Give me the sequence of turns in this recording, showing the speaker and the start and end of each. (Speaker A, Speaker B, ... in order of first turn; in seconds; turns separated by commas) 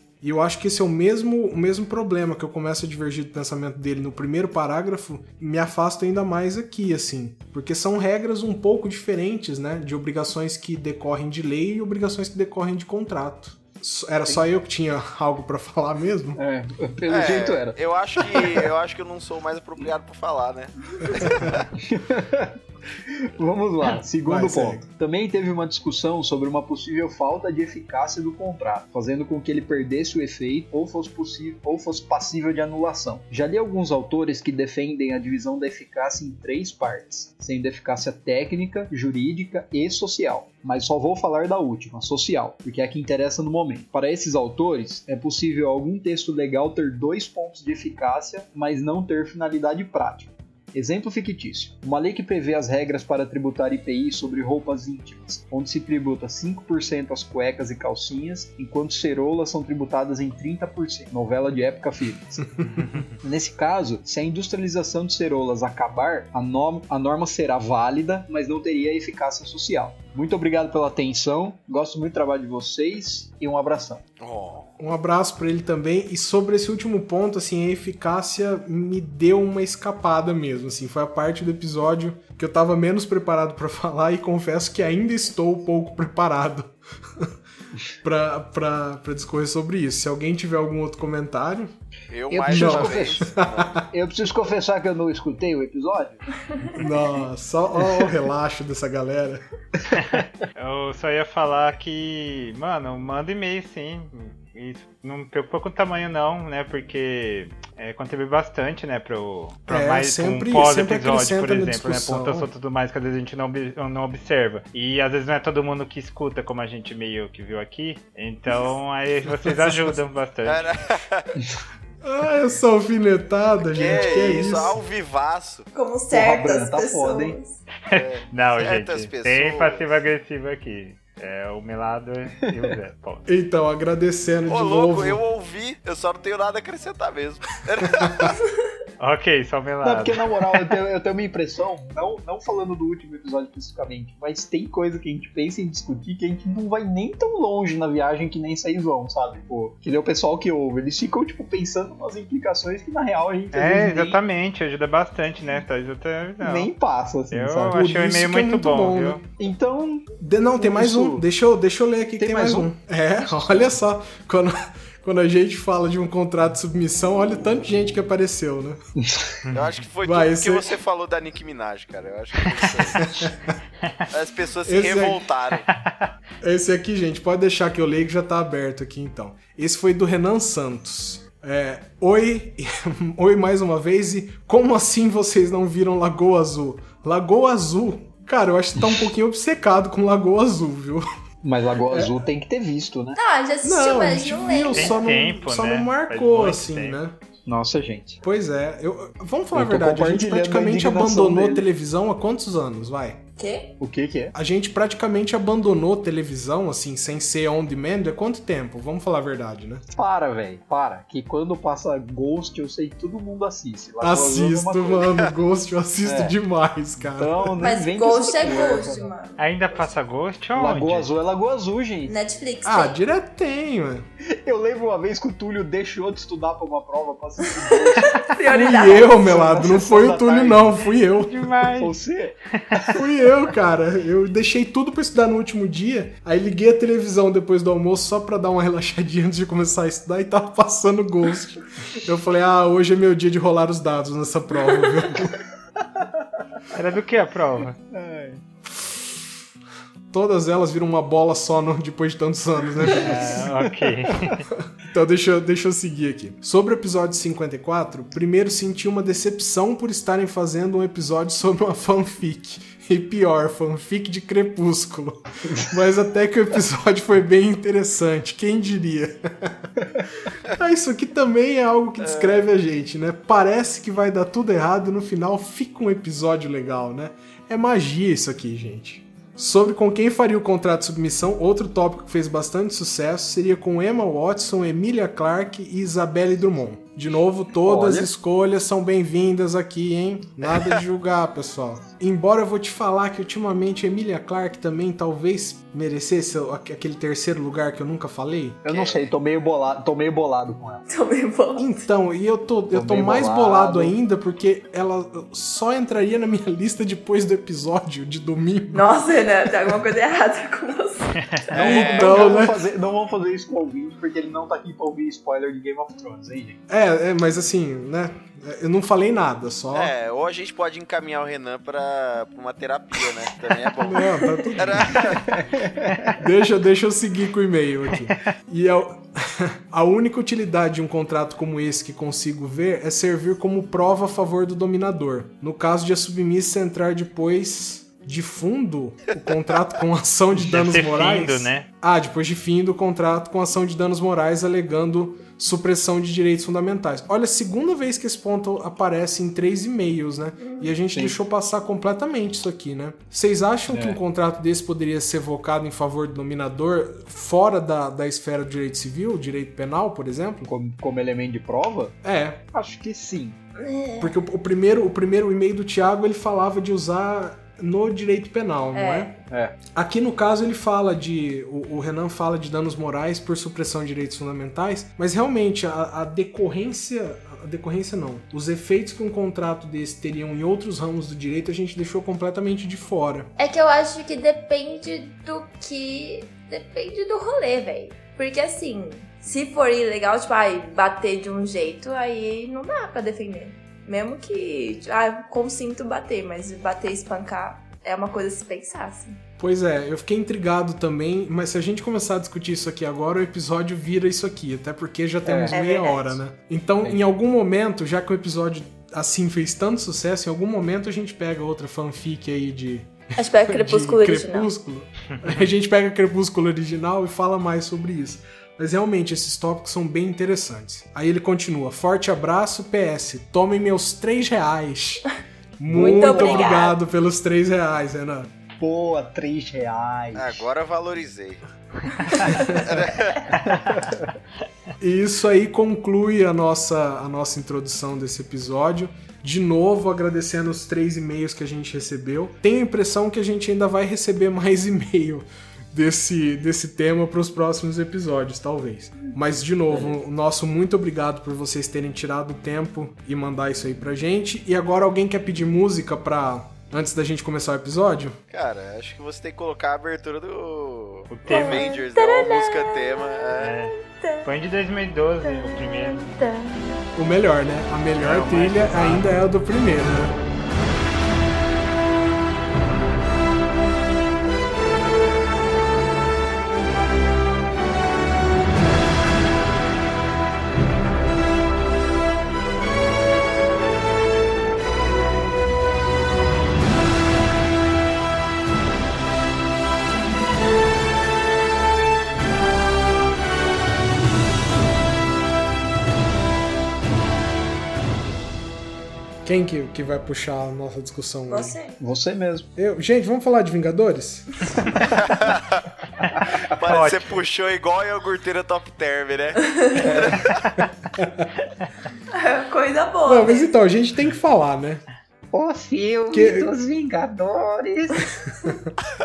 Speaker A: 0.2-16.4, Speaker B: 16.4-18.7, Speaker C: 17.1-21.7, Speaker A: 21.0-21.6, Speaker B: 21.7-74.0, Speaker A: 24.2-24.9, Speaker C: 74.2-74.7, Speaker A: 74.8-87.3, Speaker A: 88.0-91.7, Speaker C: 92.1-93.8, Speaker B: 92.3-93.3, Speaker A: 92.5-93.9, Speaker B: 93.9-96.2, Speaker A: 96.7-99.4, Speaker D: 99.9-120.7, Speaker A: 109.7-112.5, Speaker A: 119.4-120.0, Speaker C: 120.4-121.3, Speaker A: 122.0-124.8, Speaker C: 123.6-125.7, Speaker E: 125.7-127.6, Speaker B: 126.1-127.4, Speaker D: 127.8-133.3, Speaker C: 127.9-129.8, Speaker A: 133.3-135.2, Speaker C: 134.5-138.4, Speaker A: 137.8-138.4, Speaker D: 139.0-140.5, Speaker B: 139.8-154.2, Speaker D: 153.5-156.7, Speaker B: 156.4-157.8, Speaker D: 157.3-159.2, Speaker A: 157.7-159.2, Speaker B: 159.4-161.2, Speaker A: 160.2-168.8, Speaker B: 162.2-162.7, Speaker B: 169.0-169.4, Speaker D: 169.4-169.7, Speaker C: 169.5-173.3, Speaker A: 170.0-170.8, Speaker D: 172.4-172.9, Speaker A: 172.9-173.6, Speaker C: 174.1-175.7, Speaker A: 174.7-175.2, Speaker D: 175.7-176.1, Speaker A: 176.4-191.1, Speaker B: 188.8-189.0, Speaker B: 191.4-193.2, Speaker A: 191.9-192.2, Speaker E: 193.1-195.0, Speaker A: 193.6-197.2, Speaker D: 194.7-197.0, Speaker B: 197.4-198.2, Speaker A: 198.2-203.2, Speaker B: 199.5-201.7, Speaker E: 203.4-203.7, Speaker B: 203.8-204.3, Speaker A: 204.3-209.8, Speaker B: 209.9-215.1, Speaker A: 214.0-217.5, Speaker B: 216.0-216.4, Speaker B: 217.0-219.1, Speaker E: 217.6-219.9, Speaker D: 219.4-221.1, Speaker B: 220.6-222.2, Speaker E: 222.1-223.0, Speaker A: 222.6-224.1, Speaker B: 224.3-230.8, Speaker E: 227.6-229.4, Speaker A: 228.4-231.5, Speaker D: 231.0-232.0, Speaker B: 231.8-232.9, Speaker D: 232.5-232.8, Speaker A: 232.9-245.4, Speaker B: 245.8-246.5, Speaker D: 246.7-247.8, Speaker B: 247.9-248.4, Speaker A: 248.7-249.2, Speaker A: 250.1-253.6, Speaker D: 252.9-254.5, Speaker B: 252.9-254.3, Speaker A: 254.8-269.7, Speaker A: 270.5-298.6, Speaker C: 272.0-272.4, Speaker B: 287.6-288.1, Speaker B: 298.6-300.9, Speaker C: 298.7-299.0, Speaker E: 300.9-301.8, Speaker A: 301.6-309.0, Speaker B: 302.7-303.9, Speaker E: 308.7-311.2, Speaker D: 311.2-311.5, Speaker B: 311.5-316.6, Speaker C: 311.5-312.4, Speaker A: 311.5-312.6, Speaker A: 316.7-319.9, Speaker C: 319.7-325.4, Speaker A: 323.8-325.2, Speaker E: 324.2-324.5, Speaker B: 325.1-326.1, Speaker A: 326.1-360.5, Speaker D: 340.4-341.6, Speaker E: 350.4-350.7, Speaker B: 353.7-354.0, Speaker B: 360.4-362.0, Speaker A: 362.0-362.4, Speaker B: 362.5-363.4, Speaker E: 363.6-364.1, Speaker A: 364.0-369.1, Speaker E: 368.7-369.2, Speaker B: 369.3-369.6, Speaker A: 369.7-383.3, Speaker E: 383.4-399.2, Speaker A: 399.4-425.0, Speaker B: 405.2-405.6, Speaker E: 405.5-406.2, Speaker E: 413.1-414.5, Speaker A: 425.6-428.3, Speaker B: 425.7-426.7, Speaker E: 425.7-426.8, Speaker B: 428.6-430.4, Speaker C: 430.1-431.4, Speaker C: 432.1-433.6, Speaker A: 432.3-432.8, Speaker B: 433.3-434.1, Speaker A: 434.8-458.2, Speaker B: 449.7-449.9, Speaker C: 458.3-463.6, Speaker D: 461.1-461.7, Speaker E: 461.2-463.1, Speaker D: 463.4-466.1, Speaker E: 463.7-464.3, Speaker E: 465.4-466.8, Speaker A: 466.9-470.2, Speaker D: 468.0-469.1, Speaker A: 499.2-501.6, Speaker E: 501.3-501.8, Speaker B: 501.8-502.5, Speaker A: 502.6-504.5, Speaker C: 504.8-510.5, Speaker D: 506.6-507.2, Speaker E: 509.4-509.9, Speaker B: 509.8-510.2, Speaker A: 511.0-511.3, Speaker E: 512.1-513.5, Speaker A: 513.0-514.8, Speaker B: 515.3-518.1, Speaker A: 516.1-516.5, Speaker A: 518.3-518.7